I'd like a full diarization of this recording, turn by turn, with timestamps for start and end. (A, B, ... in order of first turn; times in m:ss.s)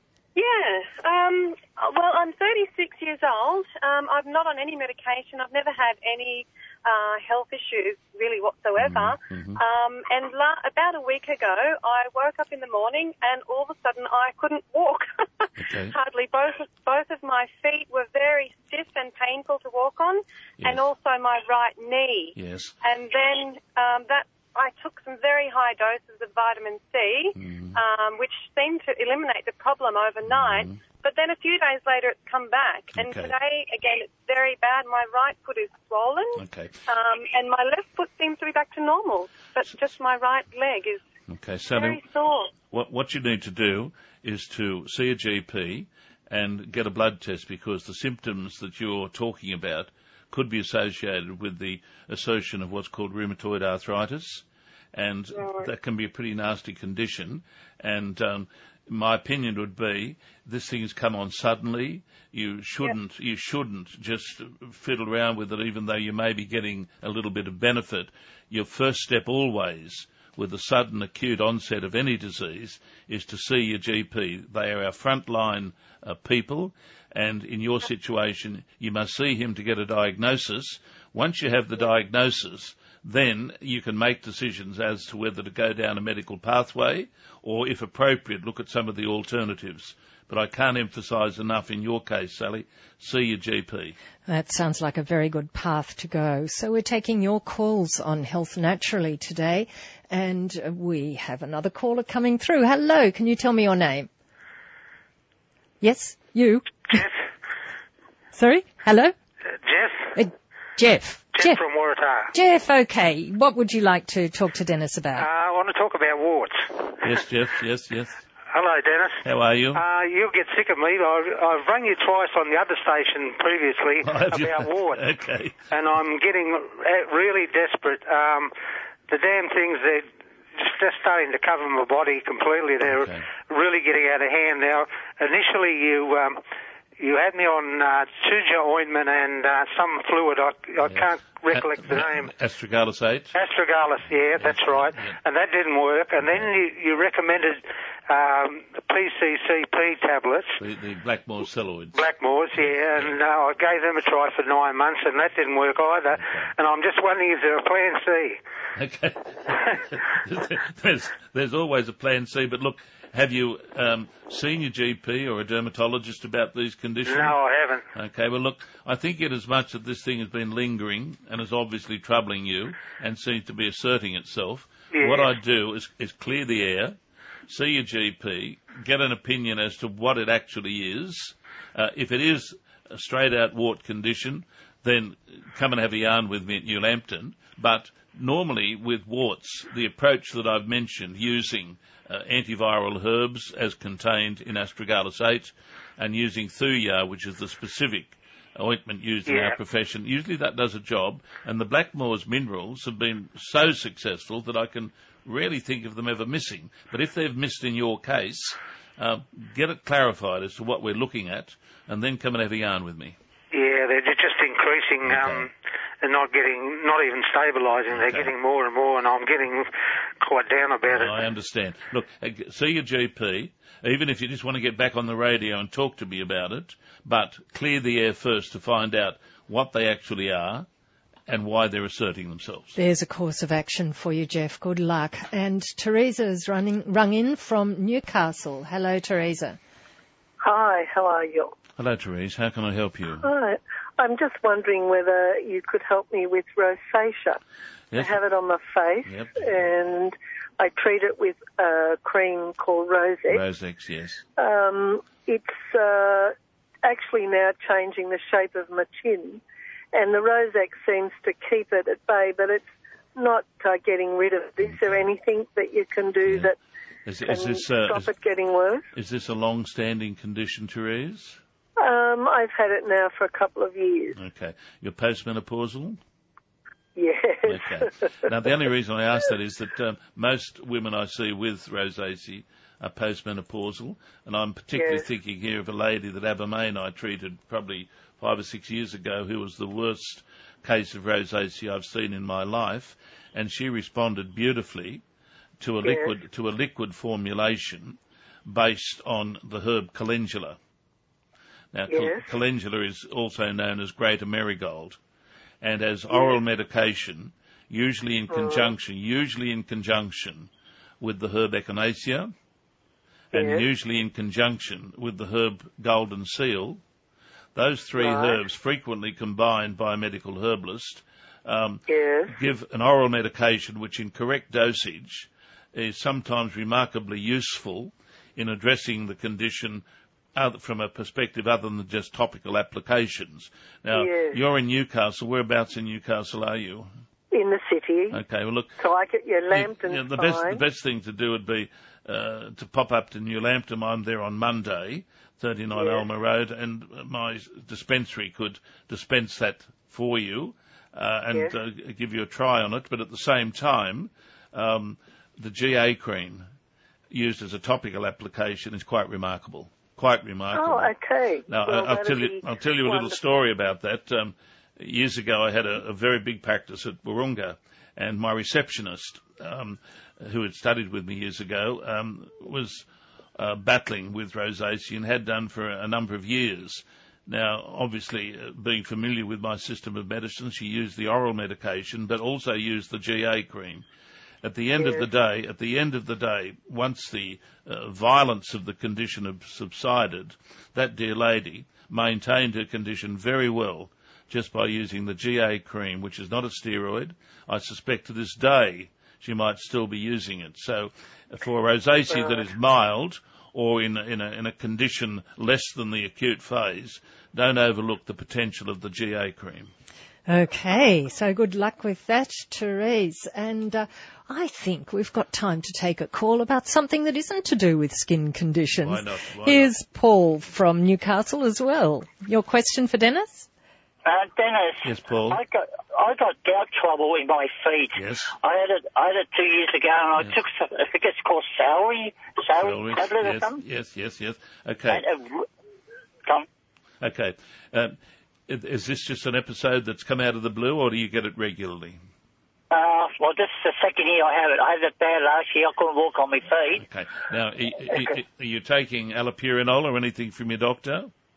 0:00.3-0:41.0 A
0:08.8-0:09.6 B
0:15.6-0:15.9 B
0:20.6-0:20.8 B
0:22.4-0:22.7 B
0:27.4-0:27.8 B
0:30.3-0:30.8 B
0:32.9-0:33.3 B
0:36.4-0:36.8 B
0:41.3-0:42.0 B
0:41.7-0:42.5 A
0:42.7-1:34.0 B
0:55.4-0:55.6 A
1:34.3-1:44.1 C
1:45.8-1:47.0 C
1:48.3-1:49.1 C
1:49.6-1:50.2 D
1:50.1-1:51.6 C
1:51.3-1:52.3 D
1:52.3-1:55.3 C
1:55.2-1:57.2 D
1:57.0-1:58.2 B
1:58.5-2:05.0 D
1:59.2-1:59.8 B
2:04.0-2:05.6 B
2:05.7-2:08.5 D
2:09.1-2:16.4 D
2:12.8-2:13.2 B
2:17.0-2:22.3 D
2:20.8-2:23.3 B
2:23.3-2:30.6 D
2:24.4-2:25.2 B
2:26.2-2:26.5 B
2:30.6-2:33.2 B
2:31.9-2:38.4 D
2:36.1-2:36.5 B
2:38.7-2:47.4 B
2:47.0-2:47.8 D
2:47.9-2:57.0 B
2:54.9-2:55.3 D
2:57.5-3:33.2 B
3:19.3-3:19.6 D
3:33.5-3:41.2 D
3:35.0-3:35.5 B
3:37.9-3:38.3 B
3:40.9-3:50.7 B
3:51.3-3:52.8 B
3:52.8-3:59.6 C
4:00.4-4:01.5 E
4:01.8-4:03.2 B
4:03.2-4:07.4 E
4:07.9-4:08.2 B
4:07.9-4:13.4 E
4:09.0-4:09.7 B
4:13.3-4:14.2 B
4:14.4-4:19.4 E
4:19.9-4:26.6 E
4:24.6-4:25.1 B
4:26.2-4:26.5 B
4:27.0-4:28.1 B
4:27.2-4:28.8 E
4:28.9-4:31.4 B
4:31.8-4:34.2 E
4:34.1-4:36.0 B
4:37.0-4:38.3 E
4:37.5-4:55.0 B
4:44.7-4:45.0 E
4:55.6-5:00.6 B
4:55.8-4:56.1 E
5:01.7-5:05.0 B
5:01.9-5:02.2 E
5:05.6-5:12.3 B
5:06.1-5:06.4 E
5:08.3-5:08.7 E
5:13.3-5:13.6 E
5:13.3-5:16.8 B
5:17.5-5:29.8 B
5:18.0-5:18.4 E
5:21.9-5:22.3 E
5:30.3-5:36.9 B
5:33.9-5:34.4 E
5:37.3-5:38.2 E
5:38.1-5:38.8 B
5:38.8-5:40.6 E
5:39.5-5:56.4 B
5:45.7-5:46.0 E
5:57.1-6:00.9 B
6:00.5-6:03.2 E
6:01.5-6:23.8 B
6:24.4-6:49.7 B
6:50.3-7:03.5 C
6:58.8-6:59.7 B
7:04.0-7:13.6 F
7:04.8-7:05.4 B
7:07.9-7:08.3 B
7:12.6-7:15.0 B
7:14.9-7:15.5 F
7:17.0-7:22.0 B
7:22.7-7:26.8 F
7:26.8-7:31.1 B